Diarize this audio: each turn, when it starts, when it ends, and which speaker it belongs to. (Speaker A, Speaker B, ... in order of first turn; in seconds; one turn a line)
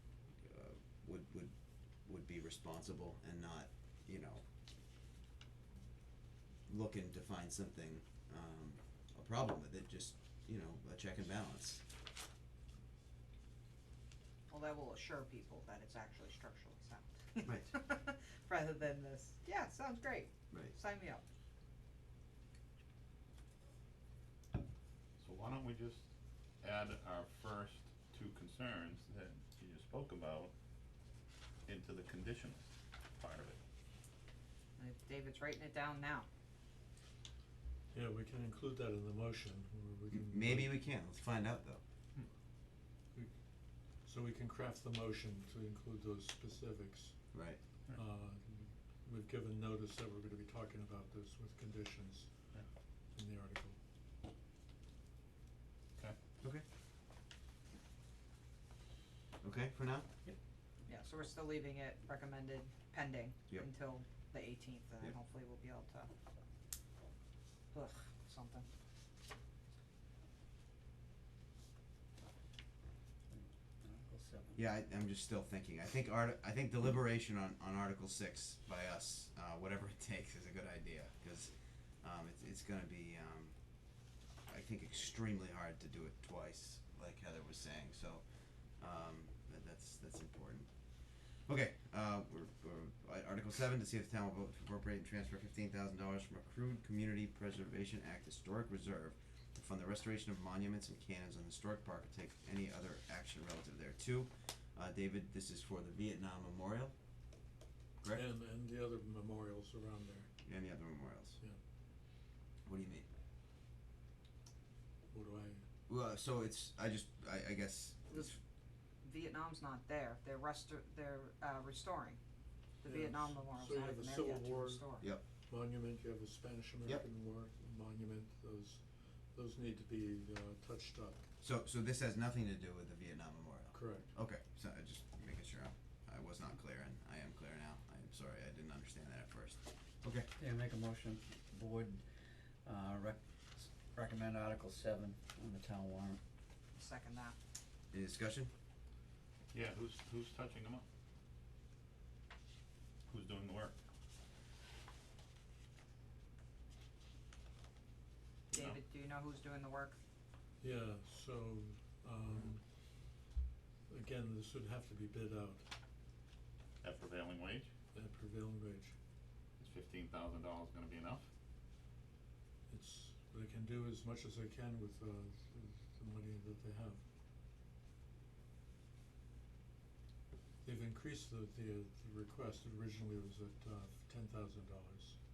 Speaker A: 0.4-1.5
Speaker A: 2.0-4.4
Speaker A: 6.7-11.8
Speaker B: 14.5-21.2
Speaker A: 17.4-17.7
Speaker C: 25.2-26.1
Speaker C: 26.6-30.5
Speaker C: 31.6-33.6
Speaker B: 34.8-36.2
Speaker D: 37.9-40.8
Speaker A: 40.1-41.8
Speaker D: 44.0-47.3
Speaker A: 47.3-47.6
Speaker D: 47.9-52.6
Speaker D: 53.1-53.8
Speaker A: 59.4-60.1
Speaker B: 60.9-66.1
Speaker B: 67.7-68.7
Speaker E: 73.3-74.6
Speaker A: 74.5-81.5
Speaker A: 82.0-83.5
Speaker A: 84.5-88.2
Speaker A: 88.8-90.7
Speaker A: 91.5-106.9
Speaker D: 108.1-110.3
Speaker A: 110.4-111.4
Speaker A: 112.7-113.0
Speaker D: 115.1-115.6
Speaker A: 115.9-118.3
Speaker B: 118.1-118.3
Speaker B: 119.0-122.2
Speaker B: 122.8-125.0
Speaker D: 122.8-131.2
Speaker A: 131.4-140.3
Speaker D: 133.7-134.1
Speaker E: 140.4-142.0
Speaker E: 142.6-146.2
Speaker B: 146.8-147.3
Speaker A: 147.9-148.5
Speaker C: 149.5-150.8
Speaker C: 153.1-153.7
Speaker C: 158.5-158.8
Speaker B: 158.5-159.9
Speaker D: 160.6-162.6
Speaker D: 163.9-165.7
Speaker C: 166.8-167.7
Speaker D: 167.9-168.9
Speaker C: 169.6-171.3
Speaker D: 172.7-177.0
Speaker D: 180.6-185.2